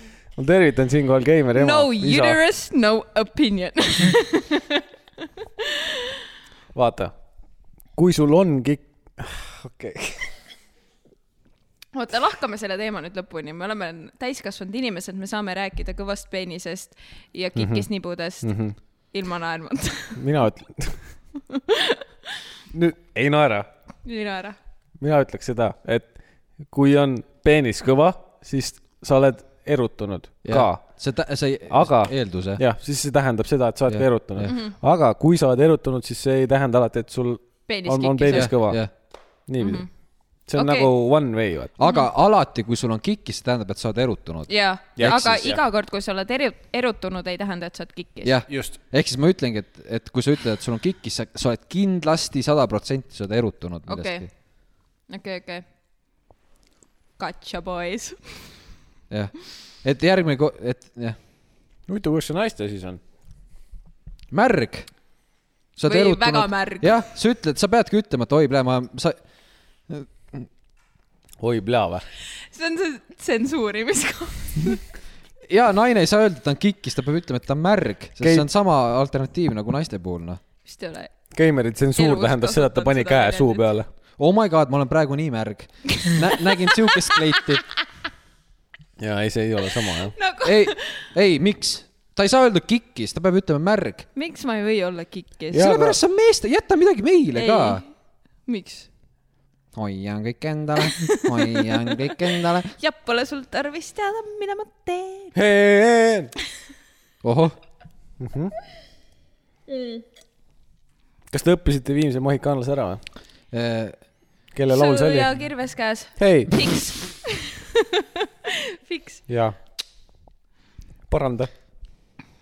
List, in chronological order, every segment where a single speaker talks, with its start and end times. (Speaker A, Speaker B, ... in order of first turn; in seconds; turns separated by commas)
Speaker A: 0.3-2.4, Speaker B: 1.5-4.8, Speaker B: 5.6-6.1, Speaker A: 6.7-7.1, Speaker A: 8.0-10.3, Speaker B: 11.9-18.5, Speaker A: 17.6-17.9, Speaker A: 18.4-18.7, Speaker B: 19.1-20.2, Speaker A: 20.1-21.0, Speaker B: 21.5-22.0, Speaker A: 22.7-23.7, Speaker B: 24.0-24.6, Speaker A: 25.0-26.1, Speaker A: 26.7-30.8, Speaker C: 30.4-32.6, Speaker A: 31.7-38.8, Speaker C: 33.9-34.5, Speaker B: 34.5-34.7, Speaker B: 37.7-38.5, Speaker C: 38.3-38.9, Speaker A: 39.5-39.9, Speaker B: 39.6-39.9, Speaker A: 40.5-41.7, Speaker B: 40.5-40.9, Speaker C: 41.8-45.5, Speaker B: 44.5-48.3, Speaker A: 45.0-45.6, Speaker C: 48.2-54.3, Speaker A: 48.5-48.8, Speaker B: 53.9-54.3, Speaker B: 55.1-55.6, Speaker B: 57.2-58.5, Speaker C: 59.1-61.2, Speaker A: 61.9-63.0, Speaker C: 64.3-64.9, Speaker C: 65.8-69.2, Speaker B: 65.8-66.9, Speaker C: 69.9-70.5, Speaker A: 71.4-72.0, Speaker B: 72.5-74.8, Speaker C: 75.5-80.4, Speaker A: 78.2-78.5, Speaker B: 80.6-81.1, Speaker A: 81.3-83.9, Speaker B: 82.0-83.7, Speaker C: 84.2-87.6, Speaker B: 85.9-86.6, Speaker B: 87.1-87.4, Speaker A: 89.0-90.1, Speaker B: 90.1-91.1, Speaker C: 90.4-94.1, Speaker B: 94.1-95.8, Speaker C: 95.5-97.8, Speaker A: 95.5-96.0, Speaker B: 97.3-97.9, Speaker B: 98.4-98.9, Speaker C: 99.7-102.7, Speaker B: 101.0-102.0, Speaker B: 102.7-105.3, Speaker A: 105.3-106.3, Speaker C: 107.2-107.5, Speaker A: 108.2-108.5, Speaker B: 109.7-110.0, Speaker A: 111.3-113.0, Speaker C: 113.5-113.9, Speaker A: 114.5-115.3, Speaker B: 114.7-119.2, Speaker A: 116.2-116.5, Speaker A: 119.3-119.5, Speaker A: 121.1-121.5